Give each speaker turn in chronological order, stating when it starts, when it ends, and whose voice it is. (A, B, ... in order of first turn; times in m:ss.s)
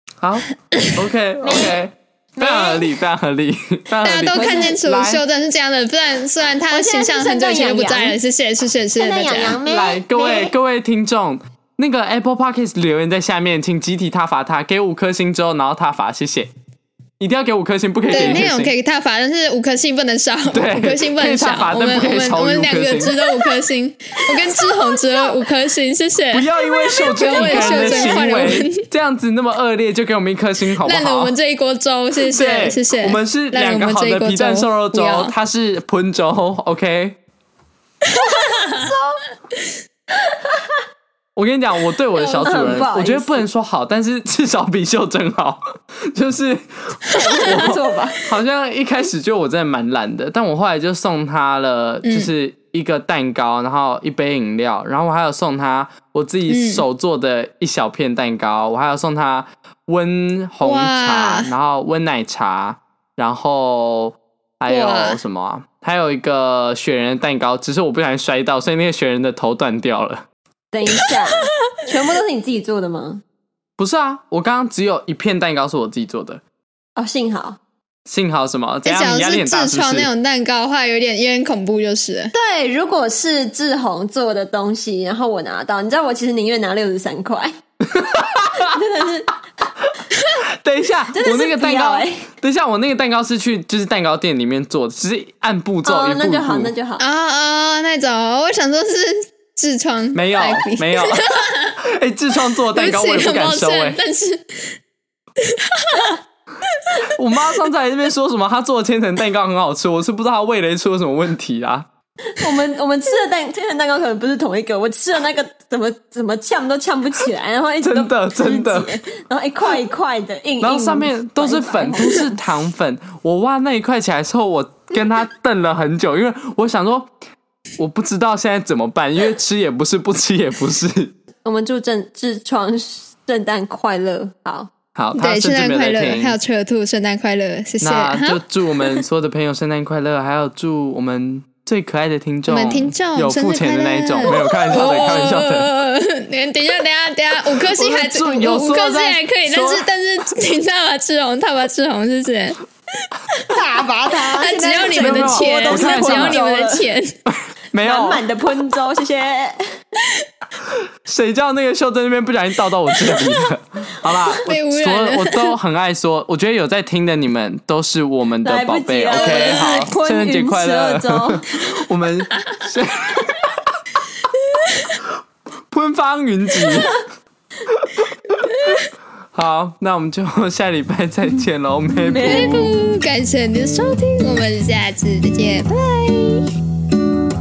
0:00.2-0:05.2 A
0:01.4-0:01.8 B
0:02.4-0:02.9 B
0:04.0-0:09.6 C
0:04.3-0:04.7 B
0:06.7-0:08.2 B
0:09.0-0:10.5 B
0:09.6-0:16.5 A
0:17.2-0:18.7 A
0:18.1-0:28.8 C
0:20.5-0:23.2 A
0:26.3-0:31.3 A
0:27.3-0:28.2 B
0:30.8-0:35.3 C
0:32.3-0:37.2 A
0:38.1-0:38.8 C
0:38.1-0:39.2 B
0:40.2-0:40.7 B
0:41.4-1:10.2 A
0:42.2-0:42.9 C
0:42.4-0:43.4 B
0:47.1-0:47.7 C
0:47.1-0:48.2 B
0:52.0-0:52.3 C
0:56.5-0:56.8 C
1:00.6-1:01.5 C
1:04.7-1:05.2 C
1:10.7-1:13.2 B
1:10.9-1:11.2 C
1:13.8-1:16.4 A
1:17.0-1:17.6 B
1:18.0-1:20.1 A
1:18.8-1:22.3 C
1:22.3-1:27.5 B
1:27.8-1:28.8 A
1:28.5-1:29.4 B
1:30.5-1:36.7 A
1:31.1-1:32.2 B
1:35.8-1:37.0 B
1:37.0-1:41.8 C
1:40.1-1:41.2 A
1:41.8-1:44.0 A
1:42.7-1:44.7 C
1:45.5-1:46.1 C
1:46.7-1:47.1 C
1:47.1-1:51.9 A
1:52.3-2:02.3 B
1:57.8-1:58.9 A
2:00.6-2:07.1 A
2:07.8-2:11.1 A
2:11.4-2:14.7 B
2:14.9-2:16.4 A
2:15.2-2:18.4 C
2:17.8-2:25.7 A
2:22.5-2:32.6 C
2:27.4-2:29.9 A
2:33.5-2:36.9 B
2:34.1-2:37.1 C
2:34.8-2:36.4 A
2:37.3-2:38.2 A
2:37.8-2:39.7 B
2:40.6-2:53.5 A
2:44.4-2:45.5 C
2:48.4-2:51.4 B
2:49.2-2:49.8 C
2:54.3-2:55.0 C
2:55.7-2:56.9 A
2:57.8-2:58.7 A
2:58.5-2:58.9 C
2:59.3-3:02.7 A
3:02.0-3:02.7 B
3:02.2-3:05.7 C
3:05.7-3:06.5 B